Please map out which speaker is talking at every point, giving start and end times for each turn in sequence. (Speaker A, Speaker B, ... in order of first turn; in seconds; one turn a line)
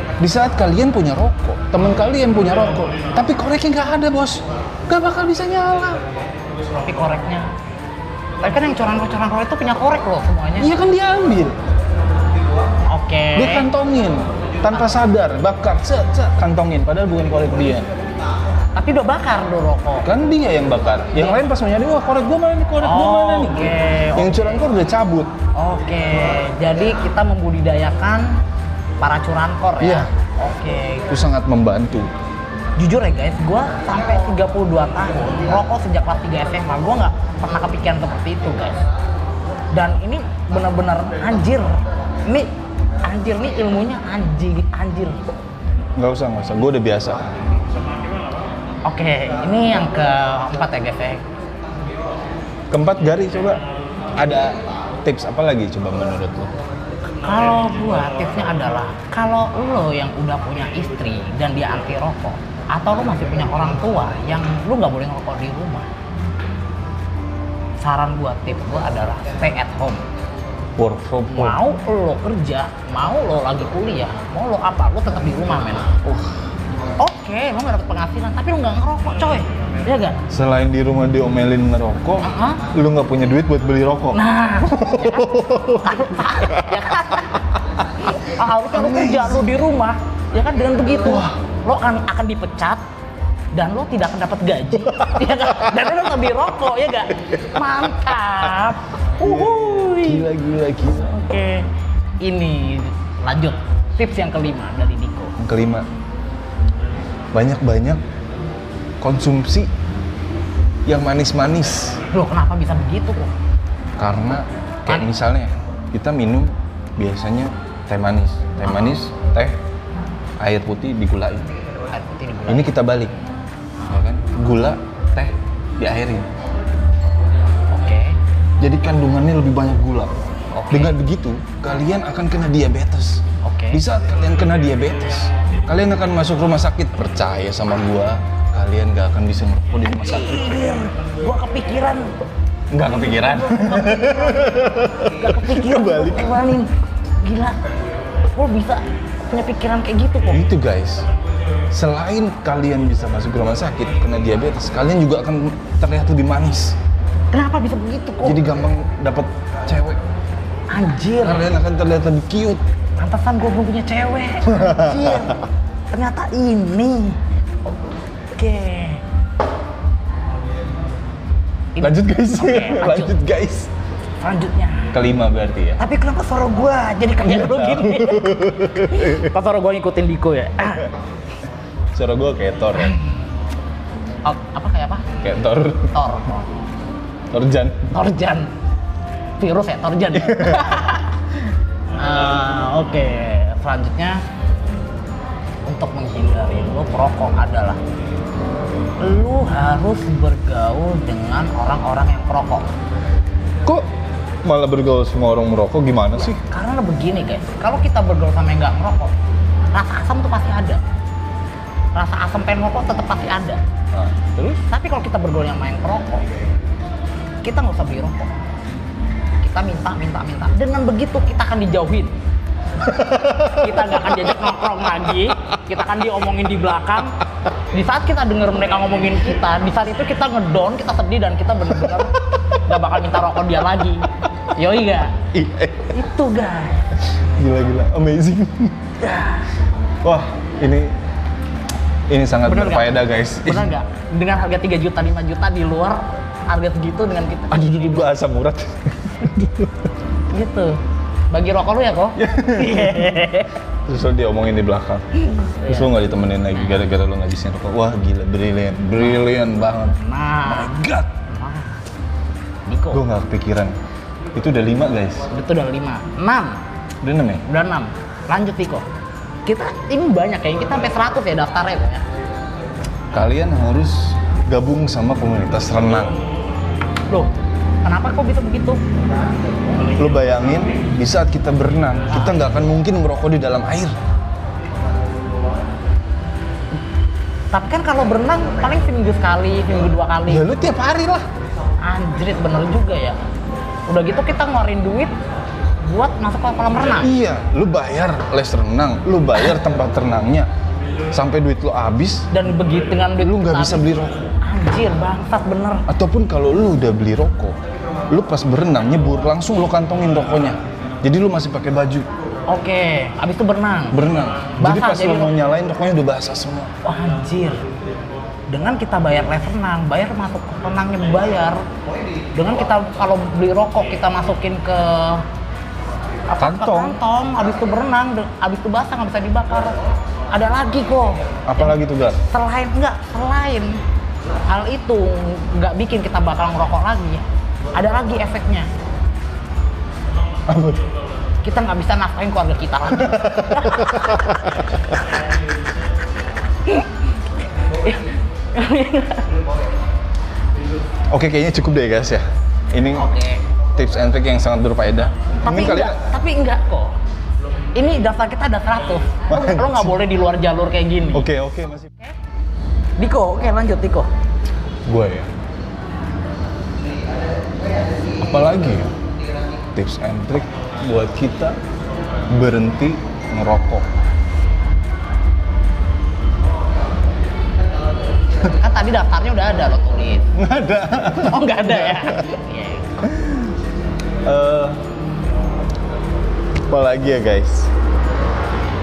Speaker A: 0.2-6.0
Speaker B: 6.8-7.5
Speaker B: 8.4-10.7
Speaker A: 10.6-11.6
Speaker B: 12.9-13.7
Speaker A: 13.3-17.9
Speaker B: 14.6-14.9
Speaker B: 18.8-20.1
Speaker A: 20.0-25.3
Speaker B: 21.1-21.4
Speaker B: 22.8-24.6
Speaker B: 25.5-28.3
Speaker B: 29.0-31.1
Speaker A: 29.8-30.1
Speaker A: 31.1-32.1
Speaker B: 32.8-38.8
Speaker B: 39.7-42.5
Speaker B: 43.0-45.2
Speaker A: 46.0-47.3
Speaker B: 48.9-51.2
Speaker A: 52.7-53.6
Speaker A: 54.1-56.5
Speaker B: 57.2-65.9
Speaker B: 67.8-70.0
Speaker A: 70.8-71.6
Speaker B: 71.3-75.9
Speaker B: 77.0-80.2
Speaker A: 80.3-86.8
Speaker B: 82.2-82.6
Speaker B: 84.1-92.8
Speaker A: 88.7-89.5
Speaker A: 91.0-91.4
Speaker B: 93.5-100.3
Speaker A: 99.2-101.1
Speaker B: 100.9-101.7
Speaker B: 102.2-105.3
Speaker A: 105.4-105.9
Speaker A: 107.3-108.0
Speaker A: 109.0-109.7
Speaker A: 110.8-112.0
Speaker B: 112.1-113.3
Speaker A: 114.0-119.5
Speaker B: 118.6-119.0
Speaker A: 120.4-121.5
Speaker B: 121.9-122.7
Speaker A: 122.5-123.2
Speaker A: 123.9-126.3
Speaker B: 127.7-128.2
Speaker A: 128.6-140.6
Speaker B: 130.5-130.9
Speaker B: 133.4-133.8
Speaker B: 139.8-142.1
Speaker A: 142.7-146.5
Speaker B: 143.0-144.5
Speaker B: 145.0-146.7
Speaker B: 147.2-147.6
Speaker B: 148.3-150.4
Speaker A: 150.3-151.1
Speaker A: 151.7-156.8
Speaker B: 157.3-158.4
Speaker A: 158.2-160.0
Speaker B: 160.7-161.5
Speaker A: 161.2-162.6
Speaker B: 163.0-167.2
Speaker A: 164.5-165.3
Speaker B: 168.3-169.0
Speaker B: 171.8-173.2
Speaker A: 171.8-173.7
Speaker B: 174.2-174.9
Speaker A: 174.9-175.8
Speaker B: 175.8-180.9
Speaker A: 177.1-179.3
Speaker A: 181.9-182.9
Speaker B: 182.8-183.1
Speaker B: 184.2-185.1
Speaker A: 185.2-185.9
Speaker B: 185.9-186.5
Speaker A: 187.3-187.9
Speaker B: 187.9-188.5
Speaker B: 189.4-191.2
Speaker A: 190.1-190.8
Speaker B: 192.0-194.2
Speaker B: 195.7-197.8
Speaker B: 199.0-202.7
Speaker A: 204.4-206.4
Speaker B: 206.1-209.1
Speaker B: 209.7-210.8
Speaker B: 211.9-213.6
Speaker A: 213.9-214.6
Speaker B: 214.7-216.2
Speaker B: 217.4-218.3
Speaker B: 219.4-222.1
Speaker B: 222.8-227.2
Speaker B: 227.7-235.2
Speaker A: 235.3-235.9
Speaker B: 235.9-236.9
Speaker A: 237.3-238.8
Speaker B: 239.0-239.5
Speaker A: 240.0-240.9
Speaker A: 242.1-243.8
Speaker B: 242.4-248.0
Speaker A: 247.5-249.9
Speaker B: 250.3-250.8
Speaker B: 251.3-253.5
Speaker A: 252.2-253.2
Speaker A: 253.8-261.1
Speaker B: 255.3-255.9
Speaker B: 256.5-256.8
Speaker B: 258.9-259.2
Speaker B: 260.0-261.8
Speaker B: 262.7-263.0
Speaker A: 262.9-263.7
Speaker A: 264.3-265.3
Speaker B: 265.3-266.6
Speaker A: 267.0-267.4
Speaker B: 267.4-268.8
Speaker B: 269.4-272.0
Speaker A: 273.1-276.2
Speaker B: 277.8-278.8
Speaker A: 279.9-283.9
Speaker B: 282.1-282.4
Speaker B: 287.5-290.5
Speaker A: 290.3-291.2
Speaker B: 291.8-293.1
Speaker B: 293.9-295.1
Speaker B: 295.8-297.1
Speaker A: 297.0-300.5
Speaker A: 301.1-302.3
Speaker B: 302.3-305.8
Speaker A: 303.2-304.3
Speaker A: 305.9-307.6
Speaker A: 308.1-312.1
Speaker B: 312.5-314.0
Speaker A: 313.9-316.7
Speaker B: 314.6-315.3
Speaker B: 316.8-317.6
Speaker B: 318.5-321.6
Speaker B: 322.3-325.2
Speaker B: 326.3-329.8
Speaker A: 326.4-327.0
Speaker B: 330.3-333.8
Speaker A: 331.5-332.2
Speaker B: 334.5-337.2
Speaker B: 337.7-338.7
Speaker A: 340.5-340.8
Speaker B: 341.4-344.6
Speaker A: 343.1-344.6
Speaker B: 347.8-349.3
Speaker A: 351.1-353.1
Speaker B: 352.9-353.4
Speaker A: 353.8-356.0
Speaker B: 355.4-356.9
Speaker B: 357.7-361.3
Speaker A: 359.3-359.9
Speaker A: 361.1-361.9
Speaker B: 363.0-364.1
Speaker A: 364.9-365.3
Speaker A: 368.1-368.9
Speaker A: 369.7-371.6
Speaker A: 372.3-373.9
Speaker B: 378.4-380.2
Speaker A: 380.3-382.3
Speaker B: 381.2-383.1
Speaker A: 383.0-383.5
Speaker A: 384.2-384.8
Speaker A: 386.7-387.7